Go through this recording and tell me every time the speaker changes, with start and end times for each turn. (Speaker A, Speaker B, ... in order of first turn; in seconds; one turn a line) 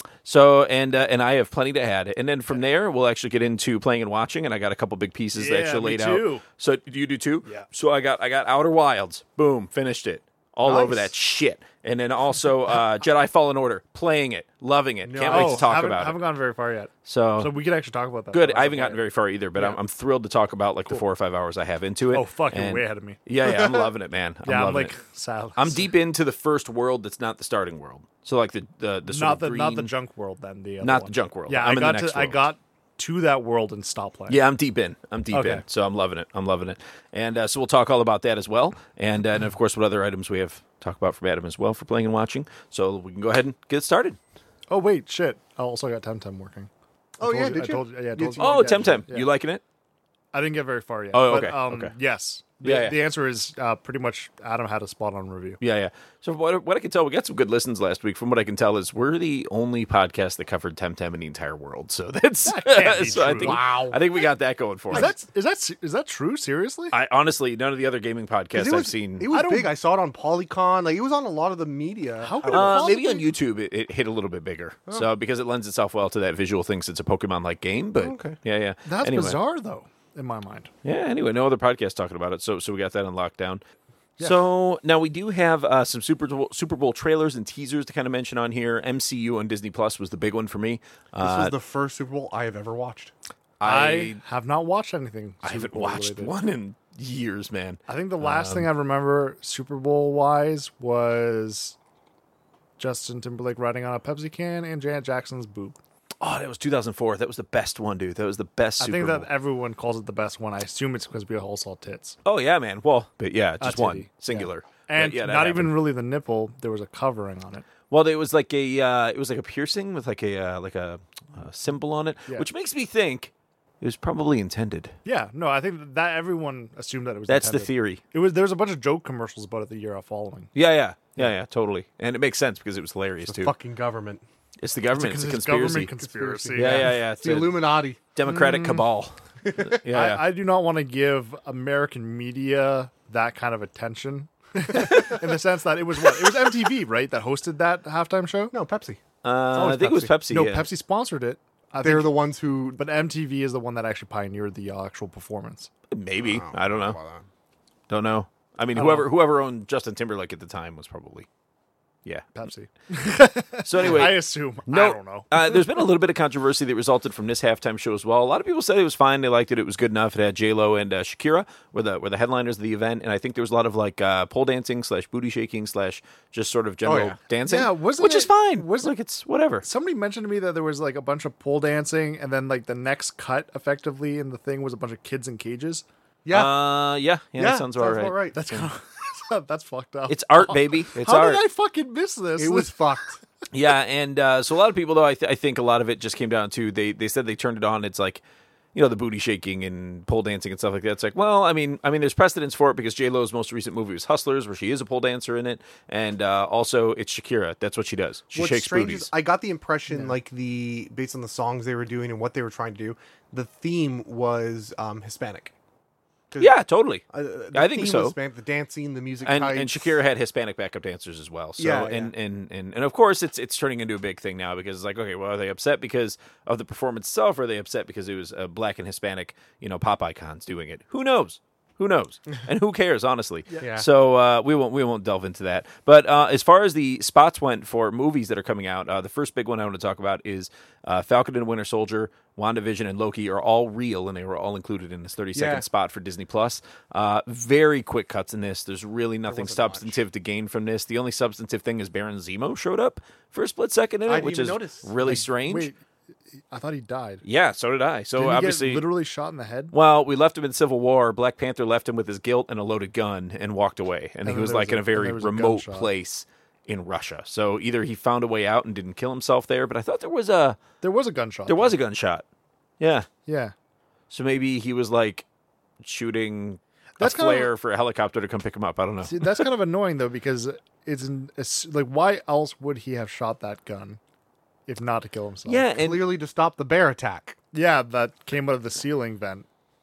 Speaker A: 0.2-16.2
Speaker B: 5.3-6.4
Speaker B: 10.7-10.9
Speaker C: 10.7-11.0
Speaker C: 15.0-15.7
Speaker B: 15.3-19.0
Speaker A: 17.0-17.5
Speaker A: 18.3-25.0
Speaker B: 22.1-23.2
Speaker C: 23.4-23.9
Speaker B: 24.4-25.9
Speaker A: 25.6-29.9
Speaker B: 29.1-34.4
Speaker A: 30.8-32.4
Speaker A: 34.3-44.2
Speaker B: 35.3-35.6
Speaker B: 44.7-46.7
Speaker C: 47.2-49.0
Speaker B: 47.2-49.3
Speaker A: 48.4-49.6
Speaker B: 50.3-55.6
Speaker A: 51.1-51.9
Speaker A: 52.6-53.0
Speaker A: 55.6-65.1
Speaker B: 62.4-63.6
Speaker C: 63.0-64.0
Speaker B: 64.9-66.9
Speaker A: 66.9-69.3
Speaker C: 68.5-73.0
Speaker B: 69.3-69.7
Speaker B: 72.2-73.3
Speaker A: 72.5-79.4
Speaker C: 78.0-78.4
Speaker B: 78.8-80.7
Speaker A: 80.8-83.6
Speaker B: 84.2-84.4
Speaker A: 84.2-91.5
Speaker C: 91.2-93.1
Speaker A: 93.6-94.2
Speaker B: 93.6-96.3
Speaker A: 95.4-98.7
Speaker B: 97.9-101.8
Speaker B: 102.8-105.8
Speaker A: 106.2-109.3
Speaker B: 108.8-112.2
Speaker A: 112.2-115.7
Speaker B: 113.6-117.6
Speaker A: 117.9-125.0
Speaker B: 125.0-130.5
Speaker A: 127.3-128.0
Speaker A: 130.5-133.5
Speaker C: 133.3-134.2
Speaker A: 134.6-135.9
Speaker B: 134.9-136.9
Speaker C: 136.0-138.0
Speaker A: 136.5-140.2
Speaker B: 138.2-138.8
Speaker C: 139.4-139.8
Speaker B: 139.9-148.5
Speaker C: 148.5-149.0
Speaker A: 149.2-150.7
Speaker B: 149.5-152.1
Speaker C: 151.8-152.8
Speaker B: 152.8-155.7
Speaker A: 155.9-157.0
Speaker C: 156.2-157.2
Speaker A: 157.9-161.3
Speaker B: 158.8-159.1
Speaker B: 162.3-165.6
Speaker A: 163.6-179.6
Speaker C: 176.8-177.2
Speaker B: 177.4-178.9
Speaker B: 179.6-185.8
Speaker C: 186.2-186.6
Speaker A: 186.3-188.7
Speaker C: 187.4-188.4
Speaker B: 188.3-192.8
Speaker A: 190.1-191.4
Speaker C: 192.4-193.2
Speaker A: 193.5-198.2
Speaker A: 198.7-209.1
Speaker C: 208.3-215.5
Speaker B: 209.9-210.2
Speaker A: 216.4-218.1
Speaker C: 217.1-219.9
Speaker A: 219.2-255.7
Speaker C: 221.6-222.1
Speaker C: 233.6-233.8
Speaker C: 245.3-245.6
Speaker C: 249.3-250.0
Speaker C: 254.1-254.9
Speaker B: 255.0-255.8
Speaker B: 256.5-257.2
Speaker A: 257.2-258.8
Speaker B: 258.2-259.7
Speaker A: 259.7-270.6
Speaker B: 264.2-265.9
Speaker B: 270.8-271.7
Speaker A: 271.5-272.2
Speaker A: 272.8-273.1
Speaker B: 273.2-273.5
Speaker A: 274.1-275.2
Speaker A: 275.8-279.4
Speaker B: 277.0-277.5
Speaker B: 279.0-284.0
Speaker B: 284.7-285.7
Speaker A: 285.4-286.1
Speaker C: 285.8-287.4
Speaker B: 287.5-289.4